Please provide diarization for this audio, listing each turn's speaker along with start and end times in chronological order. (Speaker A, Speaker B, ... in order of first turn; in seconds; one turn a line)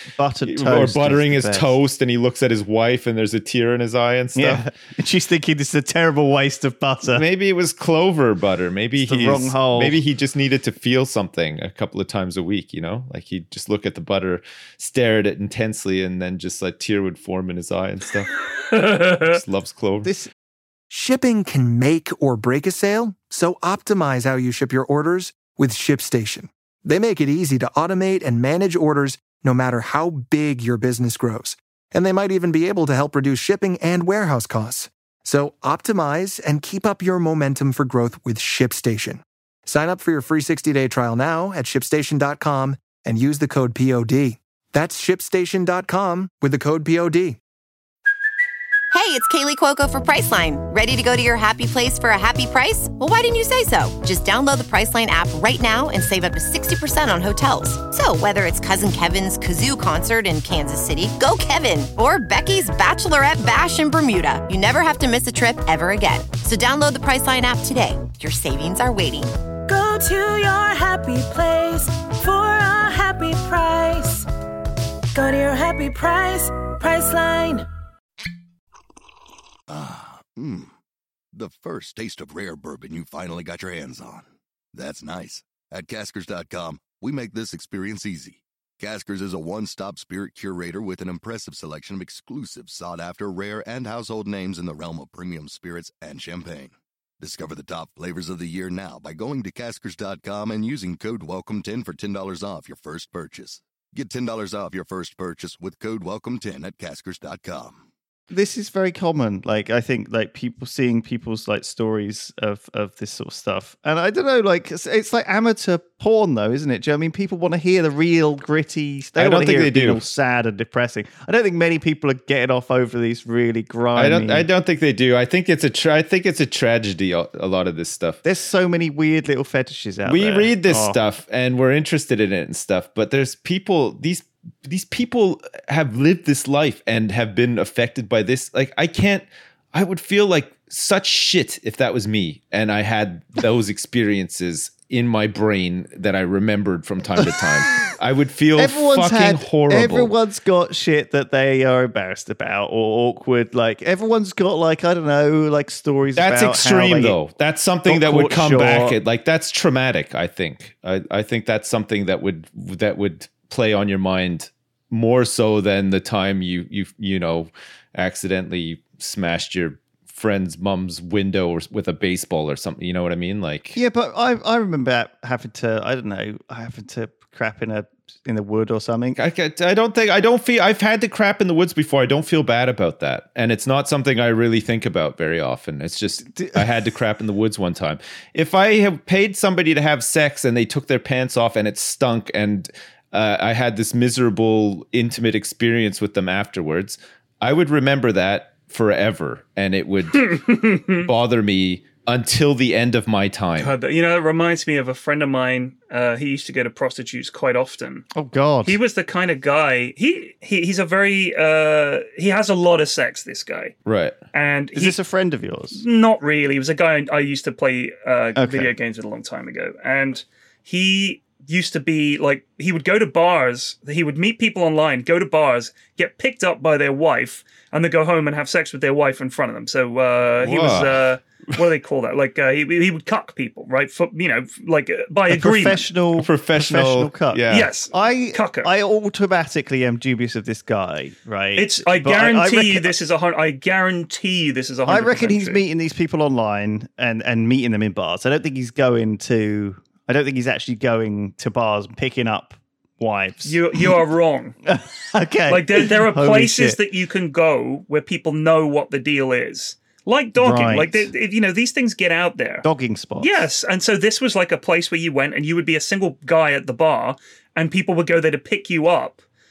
Speaker A: 0.2-1.8
Speaker B: 0.5-4.7
Speaker A: 4.3-7.2
Speaker B: 7.1-18.3
Speaker A: 9.0-10.0
Speaker C: 18.7-19.4
Speaker B: 19.1-20.1
Speaker A: 20.0-20.3
Speaker D: 20.9-47.4
Speaker E: 48.9-69.3
Speaker F: 69.7-74.3
Speaker F: 75.1-77.7
Speaker G: 79.7-80.7
Speaker G: 81.3-107.8
Speaker A: 108.3-124.5
Speaker B: 119.2-120.0
Speaker B: 124.0-128.2
Speaker A: 128.2-131.0
Speaker B: 130.1-150.2
Speaker A: 148.6-157.2
Speaker B: 156.2-173.8
Speaker A: 157.9-159.0
Speaker A: 173.8-179.2
Speaker B: 179.2-203.8
Speaker A: 186.3-186.6
Speaker C: 200.2-201.1
Speaker C: 203.6-208.1
Speaker A: 208.2-208.8
Speaker C: 208.7-213.8
Speaker B: 213.8-214.2
Speaker C: 214.3-215.0
Speaker A: 214.7-215.8
Speaker C: 215.8-235.9
Speaker A: 218.4-218.7
Speaker B: 230.4-231.0
Speaker A: 235.3-242.9
Speaker B: 236.2-237.7
Speaker C: 237.5-238.7
Speaker C: 241.6-245.7
Speaker A: 244.9-254.0
Speaker C: 253.4-254.6
Speaker A: 254.7-256.8
Speaker C: 255.5-262.6
Speaker A: 260.4-261.1
Speaker A: 262.6-263.5
Speaker C: 263.2-269.2